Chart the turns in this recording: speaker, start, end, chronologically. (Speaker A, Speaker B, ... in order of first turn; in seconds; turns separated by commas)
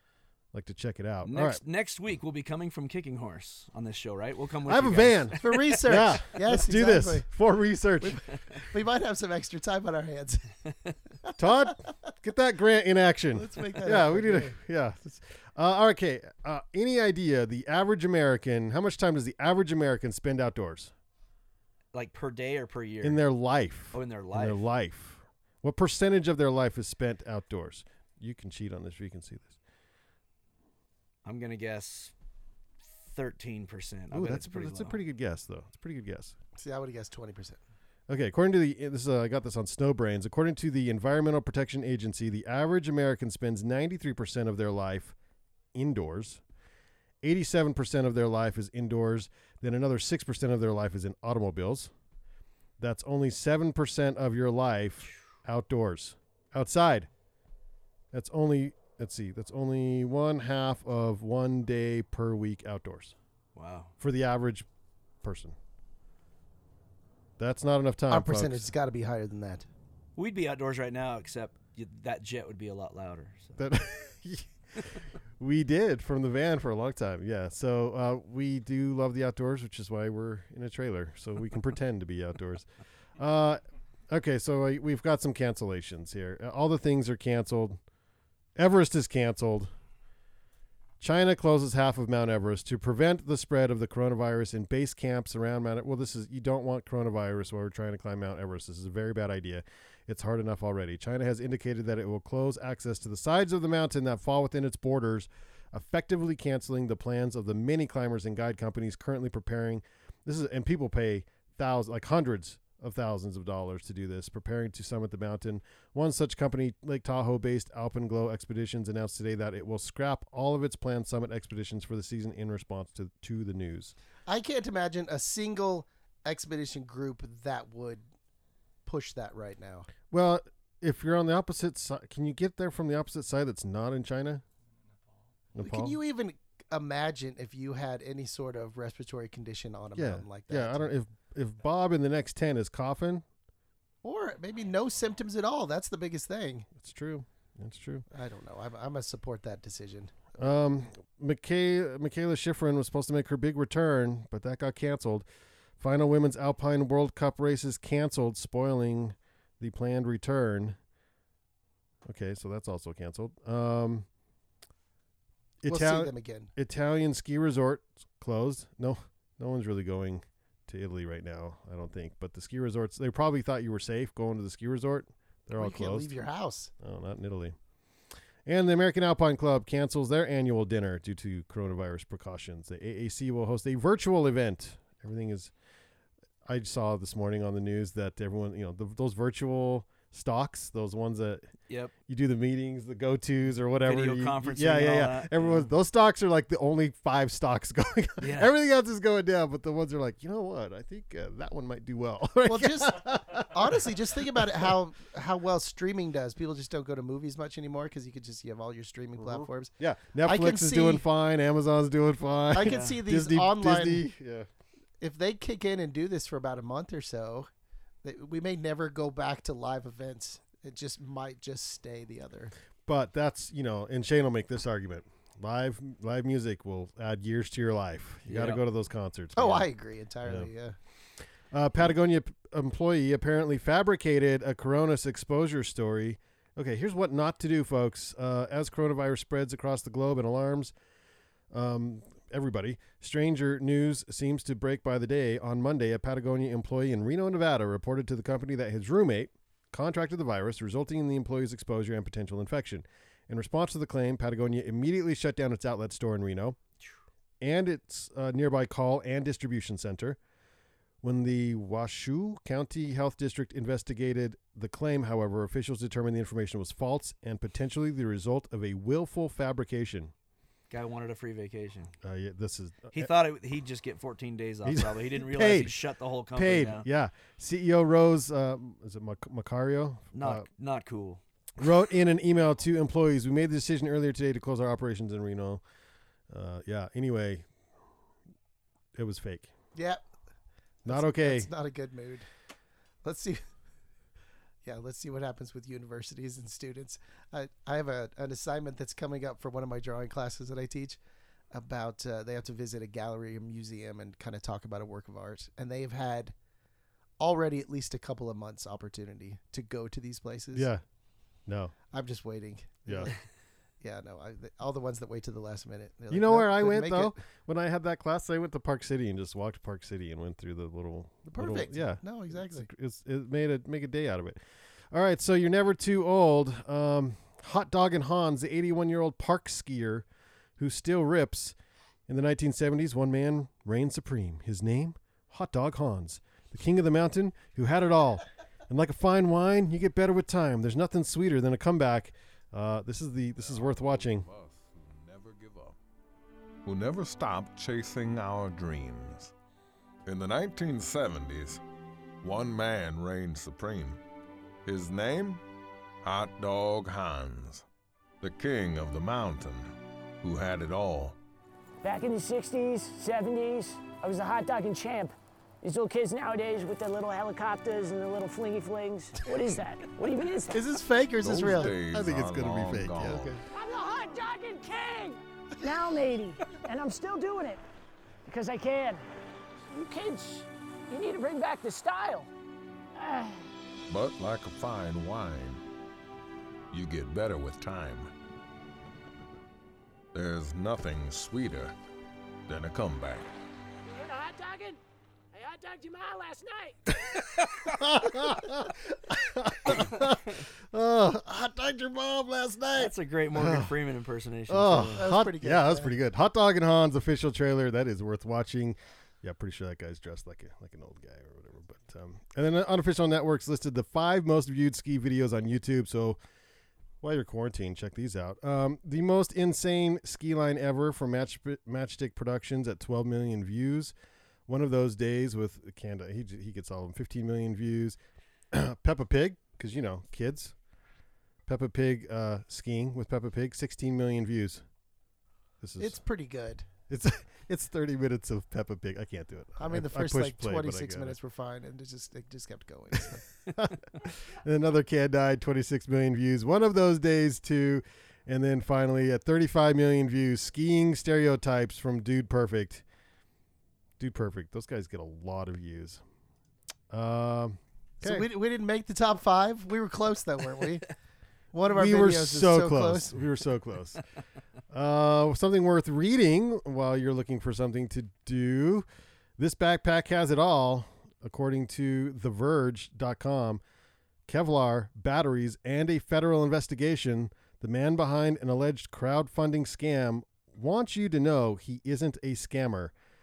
Speaker A: 0.5-1.6, Speaker B: 1.2-5.5, Speaker A: 4.7-8.3, Speaker C: 5.4-7.2, Speaker C: 8.0-10.5, Speaker A: 11.4-20.9, Speaker C: 13.3-14.5, Speaker B: 21.9-23.2, Speaker A: 23.0-29.6, Speaker B: 23.9-24.6, Speaker B: 31.2-32.1, Speaker B: 33.0-35.0, Speaker A: 34.1-36.4, Speaker C: 36.6-37.6, Speaker A: 38.1-45.1, Speaker A: 45.7-46.4, Speaker A: 47.2-51.9, Speaker A: 52.8-57.1, Speaker A: 58.1-63.1, Speaker B: 63.5-63.9, Speaker A: 64.0-64.7, Speaker A: 65.2-65.5, Speaker A: 67.4-68.7, Speaker C: 68.1-69.7, Speaker B: 70.2-73.6, Speaker A: 73.6-87.8, Speaker A: 88.5-89.7, Speaker A: 91.0-123.9, Speaker C: 124.3-128.0, Speaker C: 128.8-129.9, Speaker A: 130.1-134.4, Speaker A: 135.5-136.0, Speaker C: 135.6-140.9, Speaker A: 139.9-143.2, Speaker C: 144.0-146.7, Speaker A: 146.7-148.0, Speaker C: 148.1-150.5, Speaker A: 150.4-155.2, Speaker A: 155.8-160.8, Speaker A: 162.0-164.1, Speaker A: 165.6-176.1, Speaker C: 165.7-166.5, Speaker C: 175.6-176.7, Speaker A: 176.8-177.6, Speaker A: 178.4-185.5, Speaker A: 186.4-191.5, Speaker A: 192.1-204.7, Speaker B: 193.8-195.7, Speaker B: 198.2-198.5, Speaker C: 202.5-203.0, Speaker C: 203.5-209.7, Speaker A: 209.2-214.5, Speaker C: 210.2-211.0, Speaker C: 212.5-214.1, Speaker B: 212.6-213.0, Speaker C: 215.0-217.5, Speaker C: 218.0-222.5, Speaker A: 222.8-229.7, Speaker B: 228.2-228.6, Speaker C: 229.3-230.8, Speaker A: 230.2-230.5, Speaker A: 231.5-240.7, Speaker A: 241.5-256.6, Speaker A: 257.4-260.2, Speaker A: 261.0-270.1, Speaker B: 270.7-271.9, Speaker A: 272.0-273.1, Speaker B: 272.9-276.9, Speaker A: 274.6-275.8, Speaker A: 276.3-280.4, Speaker B: 280.1-281.2, Speaker A: 281.6-285.6, Speaker A: 286.3-287.5, Speaker A: 288.9-289.5, Speaker C: 289.7-290.0, Speaker A: 290.9-291.5, Speaker C: 290.9-292.2, Speaker C: 293.0-293.4, Speaker C: 294.6-301.0, Speaker C: 301.5-306.3, Speaker C: 307.2-310.7, Speaker A: 310.5-310.8, Speaker A: 311.5-311.7, Speaker C: 311.9-313.2, Speaker A: 312.9-313.1, Speaker C: 313.8-317.2, Speaker A: 316.1-324.4, Speaker C: 321.2-322.7, Speaker A: 324.9-330.1, Speaker A: 330.6-331.5, Speaker A: 332.1-344.3, Speaker D: 343.4-345.8, Speaker D: 346.6-349.3, Speaker D: 350.1-351.6, Speaker D: 352.2-354.0, Speaker D: 354.6-355.4, Speaker D: 356.0-357.6, Speaker D: 358.2-361.2, Speaker E: 361.8-370.6, Speaker C: 369.2-369.6, Speaker C: 370.5-371.8, Speaker D: 371.2-373.4, Speaker A: 371.7-373.4, Speaker E: 373.5-377.6, Speaker E: 378.2-379.0, Speaker E: 379.7-382.3, Speaker E: 382.9-383.4, Speaker D: 383.9-385.6, Speaker D: 386.7-388.1, Speaker D: 390.1-391.7, Speaker D: 392.5-393.3, Speaker E: 393.9-394.8, Speaker E: 395.3-396.8, Speaker A: 397.6-403.7, Speaker B: 402.8-405.0, Speaker A: 404.5-416.2, Speaker C: 405.0-405.9, Speaker A: 417.0-423.9, Speaker A: 424.5-428.0, Speaker A: 428.5-430.5, Speaker A: 431.4-434.6, Speaker A: 435.6-436.0, Speaker C: 435.8-436.6, Speaker A: 436.9-441.2, Speaker C: 439.6-443.2, Speaker A: 443.5-452.8, Speaker A: 454.0-456.0, Speaker A: 456.9-458.3, Speaker C: 458.0-460.9, Speaker C: 461.5-463.2, Speaker A: 461.7-464.0, Speaker A: 464.7-468.9, Speaker A: 469.4-473.6, Speaker A: 474.3-482.9